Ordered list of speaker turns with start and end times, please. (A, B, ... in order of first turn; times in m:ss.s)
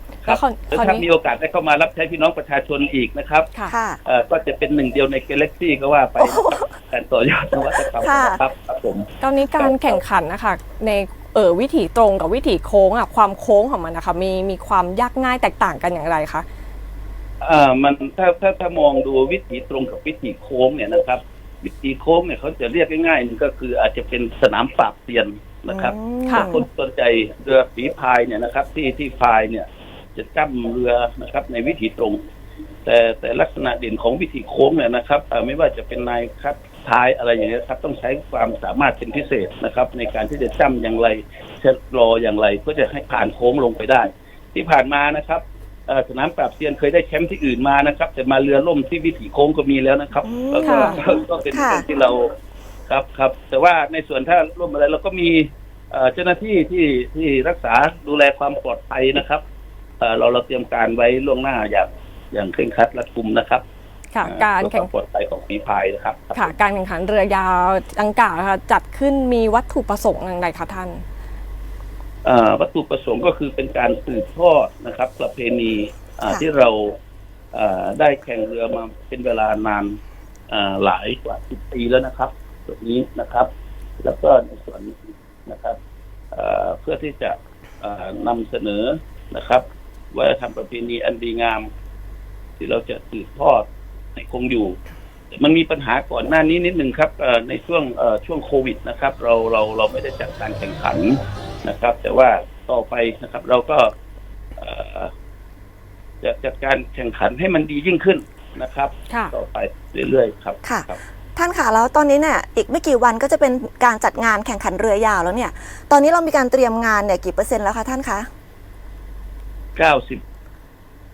0:00.2-0:03.5 A
0:00.2-0:01.0 B
0:03.7-0:04.0 C
0:04.0-0:09.7 A
0:06.2-0:06.7 C
0:08.0-0:08.4 C
0:09.2-0:16.4 B
0:17.4-0:32.2 A
0:25.7-0:26.6 C
0:32.8-0:52.3 A
0:50.2-0:51.8 C
0:50.6-0:51.0 B
0:52.9-0:59.4 A
1:00.0-1:03.6 A
1:04.1-1:04.9 B
1:04.2-1:06.5 A
1:06.3-1:11.0 B
1:12.2-1:17.0 A
1:17.5-1:23.5 A
1:24.0-1:25.8 A
1:26.3-1:31.7 A
1:32.6-1:34.8 A
1:35.3-1:43.9 A
1:44.6-1:45.1 A
1:46.2-1:51.0 A
1:50.6-1:58.3 C
1:59.8-2:00.2 A